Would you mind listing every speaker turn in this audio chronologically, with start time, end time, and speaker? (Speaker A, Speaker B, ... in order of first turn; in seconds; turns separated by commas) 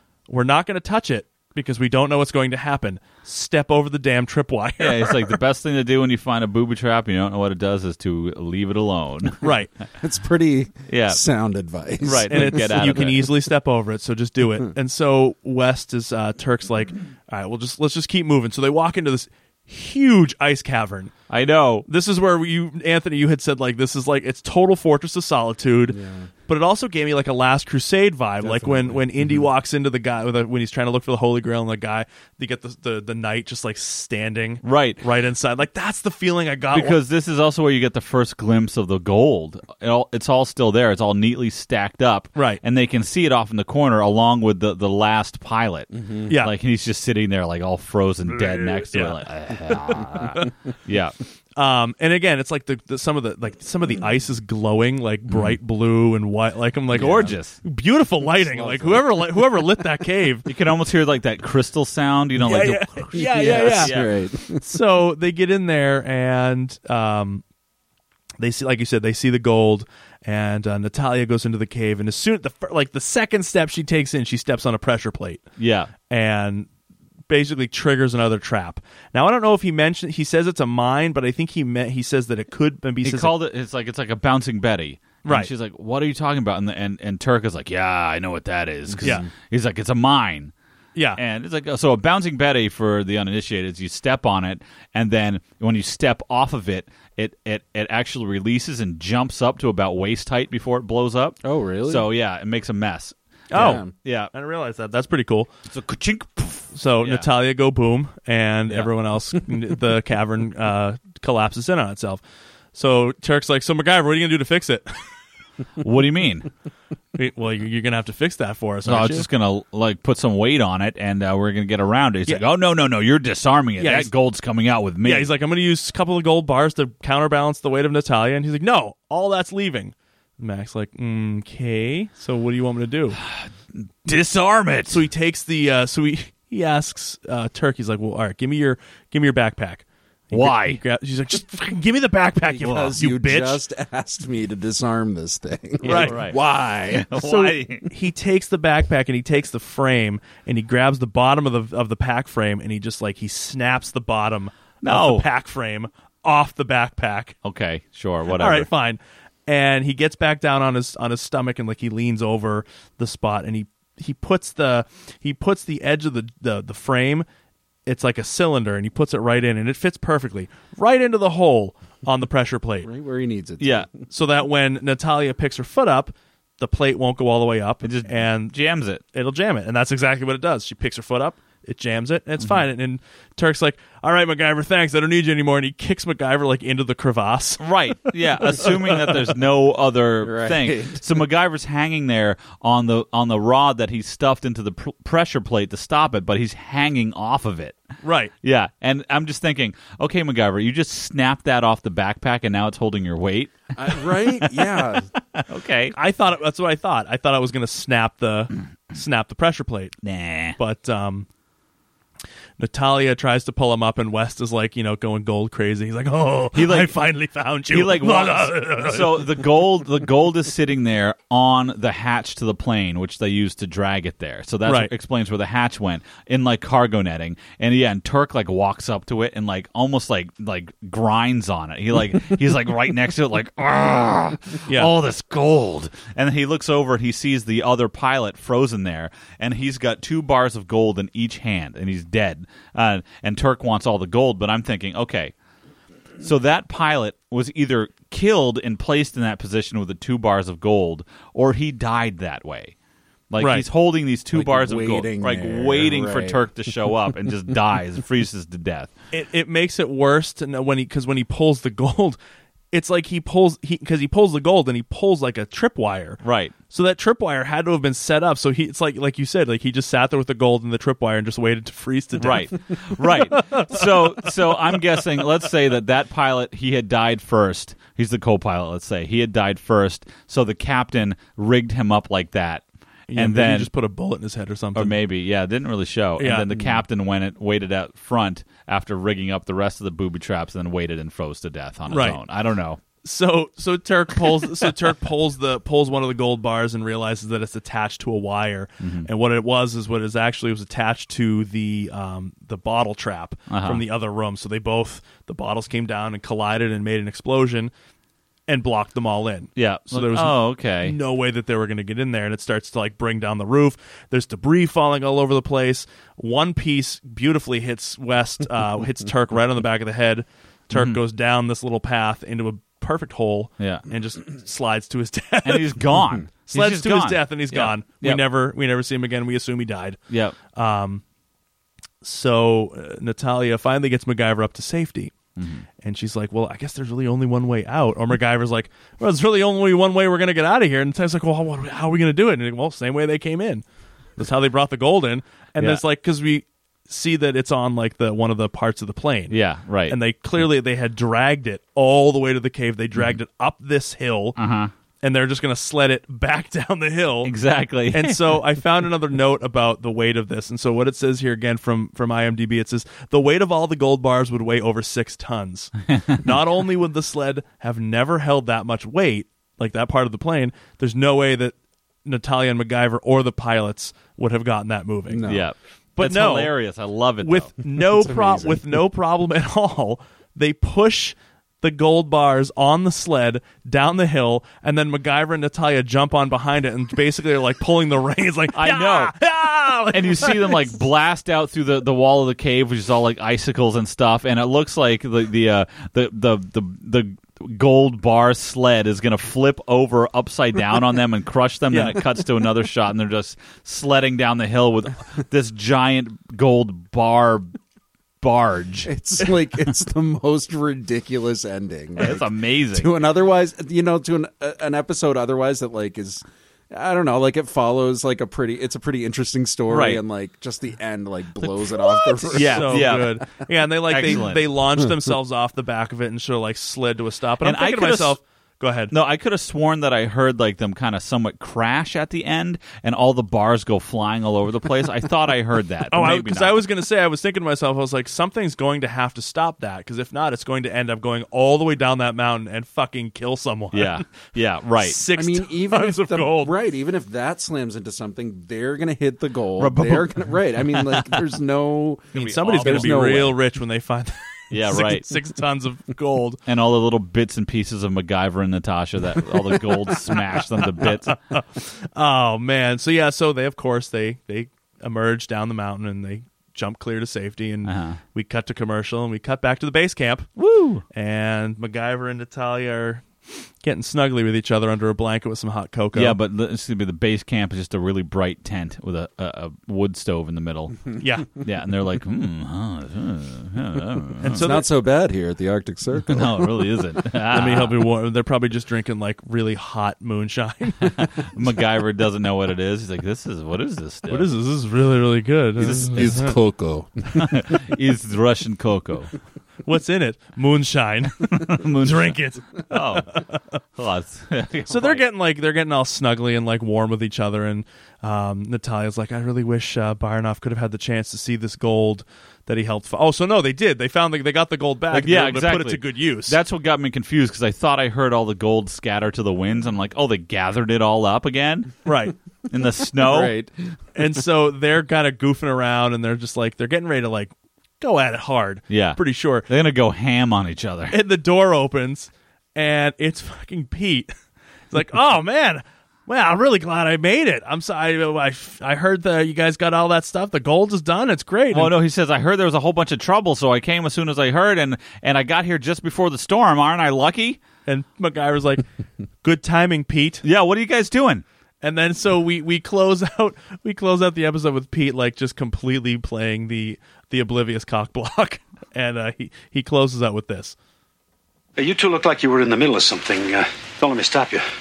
Speaker A: 0.3-5.4, Speaker B: 4.8-9.4, Speaker A: 9.4-9.7, Speaker C: 10.0-13.0, Speaker B: 10.9-11.2, Speaker B: 12.0-13.3, Speaker A: 12.3-21.1, Speaker B: 21.3-21.9, Speaker A: 21.9-37.0, Speaker C: 25.9-26.3, Speaker C: 28.4-29.0, Speaker B: 34.6-35.0, Speaker B: 36.7-51.2, Speaker A: 42.4-42.6, Speaker A: 46.3-46.5, Speaker A: 48.3-50.5, Speaker A: 51.5-60.5, Speaker B: 55.3-55.6, Speaker B: 56.9-57.6, Speaker C: 58.4-59.2, Speaker B: 60.5-64.1, Speaker A: 62.4-63.9, Speaker C: 63.1-64.7, Speaker A: 64.5-67.4, Speaker A: 68.4-75.4, Speaker B: 75.6-75.9, Speaker A: 76.1-76.7, Speaker A: 77.3-83.3, Speaker B: 83.0-90.5, Speaker A: 85.2-85.5, Speaker C: 88.9-89.2, Speaker A: 89.0-89.3, Speaker A: 90.9-91.2, Speaker B: 91.2-104.3, Speaker C: 101.4-102.1, Speaker A: 103.5-105.5, Speaker C: 103.5-103.9, Speaker B: 105.7-107.3, Speaker A: 106.7-112.2, Speaker A: 112.7-115.1, Speaker B: 115.8-116.5, Speaker A: 117.1-119.3, Speaker B: 118.8-125.3, Speaker A: 123.8-124.1, Speaker A: 125.0-133.2, Speaker B: 133.2-135.0, Speaker A: 134.9-143.6, Speaker B: 140.3-140.8, Speaker C: 142.5-147.1, Speaker A: 145.8-146.2, Speaker B: 145.8-147.9, Speaker A: 147.2-157.3, Speaker B: 154.8-155.2, Speaker B: 157.4-158.7, Speaker A: 158.3-167.2, Speaker A: 167.8-172.9, Speaker C: 172.8-173.9, Speaker B: 173.6-173.9, Speaker A: 174.1-178.5, Speaker B: 177.8-179.0, Speaker A: 179.1-187.7, Speaker B: 187.6-197.8, Speaker A: 188.5-189.2, Speaker C: 190.2-191.0, Speaker A: 198.0-198.3, Speaker B: 198.4-204.8, Speaker C: 203.8-205.1, Speaker B: 205.3-205.9, Speaker A: 205.9-209.9, Speaker B: 210.0-210.6, Speaker A: 210.6-211.3, Speaker A: 212.6-219.4, Speaker B: 216.5-216.9, Speaker B: 217.7-245.3, Speaker A: 224.7-224.9, Speaker A: 234.7-234.9, Speaker B: 246.2-252.7, Speaker B: 253.3-258.9, Speaker A: 253.4-253.6, Speaker C: 254.3-256.4, Speaker A: 259.1-262.2, Speaker A: 262.7-274.7, Speaker B: 266.2-266.5, Speaker B: 272.2-282.6, Speaker A: 283.1-284.9, Speaker B: 283.1-283.7, Speaker B: 284.7-292.8, Speaker A: 286.2-286.5, Speaker A: 291.9-292.2, Speaker A: 293.0-307.7, Speaker B: 298.8-299.1, Speaker B: 303.5-303.8, Speaker A: 308.5-330.0, Speaker B: 309.6-310.9, Speaker B: 320.7-321.0, Speaker B: 323.6-323.8, Speaker B: 325.4-328.2, Speaker B: 330.1-330.4, Speaker A: 330.5-331.0, Speaker A: 332.0-335.1, Speaker B: 335.4-335.6, Speaker A: 335.8-343.6, Speaker A: 344.2-349.3, Speaker B: 349.3-350.0, Speaker A: 349.9-354.4, Speaker B: 354.4-354.7, Speaker A: 355.0-357.3, Speaker B: 357.2-358.4, Speaker A: 357.9-375.2, Speaker B: 365.9-366.2, Speaker C: 375.1-375.4, Speaker B: 375.2-377.5, Speaker A: 376.0-376.5, Speaker A: 377.2-390.7, Speaker C: 377.8-378.6, Speaker B: 388.5-389.2, Speaker B: 389.9-407.5, Speaker A: 401.7-402.0, Speaker B: 408.2-408.9, Speaker C: 408.9-423.0, Speaker B: 412.0-412.9, Speaker B: 419.7-420.0, Speaker A: 422.1-428.9, Speaker B: 422.3-423.2, Speaker B: 423.9-424.5, Speaker B: 427.4-428.2, Speaker B: 428.9-436.6, Speaker A: 435.9-444.0, Speaker B: 443.7-445.0, Speaker A: 444.8-446.5, Speaker C: 445.1-453.4, Speaker A: 449.6-450.1, Speaker B: 452.1-453.3, Speaker A: 452.1-456.4, Speaker B: 454.5-455.1, Speaker B: 456.4-461.2, Speaker A: 460.8-470.3, Speaker B: 467.6-468.0, Speaker B: 470.4-470.8, Speaker A: 470.9-476.2, Speaker B: 475.9-484.6, Speaker A: 481.0-481.3, Speaker A: 484.2-484.6, Speaker C: 484.3-486.7, Speaker B: 486.1-487.8, Speaker A: 487.3-491.0, Speaker B: 490.8-494.3, Speaker A: 494.1-496.4, Speaker B: 495.6-496.4, Speaker C: 495.6-497.6, Speaker B: 497.1-499.1, Speaker A: 499.6-503.4, Speaker B: 501.2-505.0, Speaker A: 504.7-516.4, Speaker B: 514.9-521.8, Speaker A: 521.8-522.1, Speaker B: 522.5-523.4, Speaker C: 523.0-523.5, Speaker A: 523.9-529.5, Speaker B: 528.7-531.0, Speaker A: 530.9-534.1, Speaker A: 534.7-541.7, Speaker B: 541.5-547.4, Speaker A: 547.6-548.6, Speaker A: 549.2-550.2, Speaker B: 550.2-551.2, Speaker A: 551.6-560.5, Speaker D: 561.6-564.4